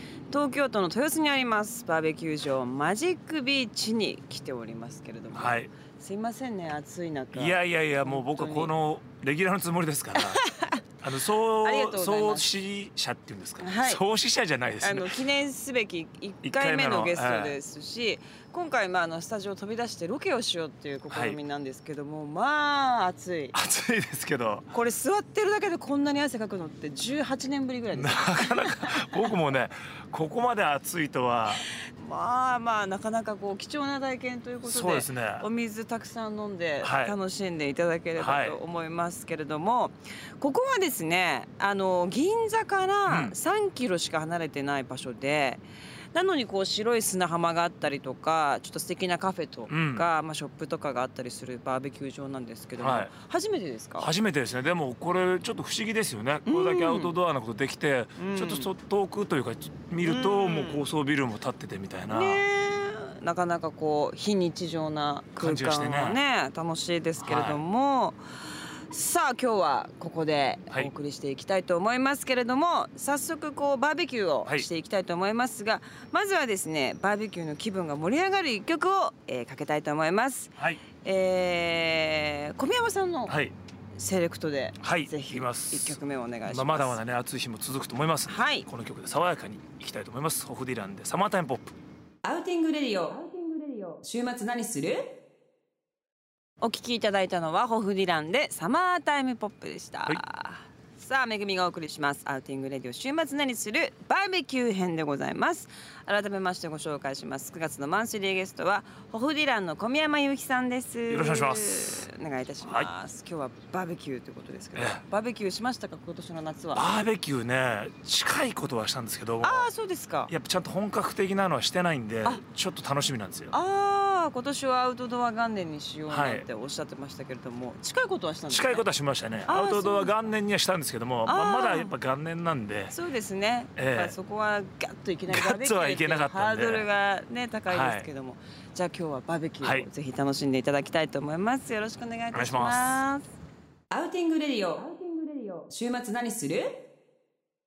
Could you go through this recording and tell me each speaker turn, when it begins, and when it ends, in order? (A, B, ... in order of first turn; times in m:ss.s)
0:00.3-0:08.7 A
0:05.3-0:05.7 B
0:07.3-0:10.5 B
0:10.2-0:10.8 A
0:11.0-0:15.2 B
0:11.6-0:12.5 A
0:13.6-0:14.0 A
0:14.8-0:23.6 A
0:16.4-0:17.6 B
0:21.1-0:21.4 B
0:23.5-0:24.7 B
0:24.7-0:29.3 A
0:27.9-0:31.6 B
0:31.9-0:45.6 A
0:34.6-0:35.4 B
0:36.8-0:37.2 B
0:38.2-0:38.6 B
0:43.1-0:43.3 B
0:46.1-0:54.1 A
0:49.7-0:50.0 B
0:52.8-0:53.1 B
0:54.0-1:02.4 B
0:56.4-0:57.1 A
0:58.2-0:58.7 A
1:00.0-1:00.8 A
1:02.1-1:08.2 A
1:05.4-1:06.2 B
1:07.2-1:07.6 B
1:08.9-1:23.4 A
1:23.3-1:23.5 B
1:23.9-1:27.0 A
1:24.8-1:31.7 B
1:28.3-1:28.7 A
1:32.2-1:35.2 A
1:36.6-1:56.9 A
1:51.1-1:52.0 B
1:52.6-1:52.9 B
1:54.8-1:55.0 B
1:56.7-1:59.7 B
1:59.4-2:00.3 A
2:00.3-2:03.5 B
2:03.5-2:08.8 A
2:06.1-2:06.4 B
2:08.5-2:12.9 B
2:09.5-2:10.1 A
2:11.2-2:11.9 A
2:12.9-2:23.3 A
2:13.8-2:14.1 B
2:15.3-2:16.9 B
2:17.7-2:18.1 B
2:19.6-2:19.9 B
2:22.3-2:23.0 B
2:23.9-2:26.9 A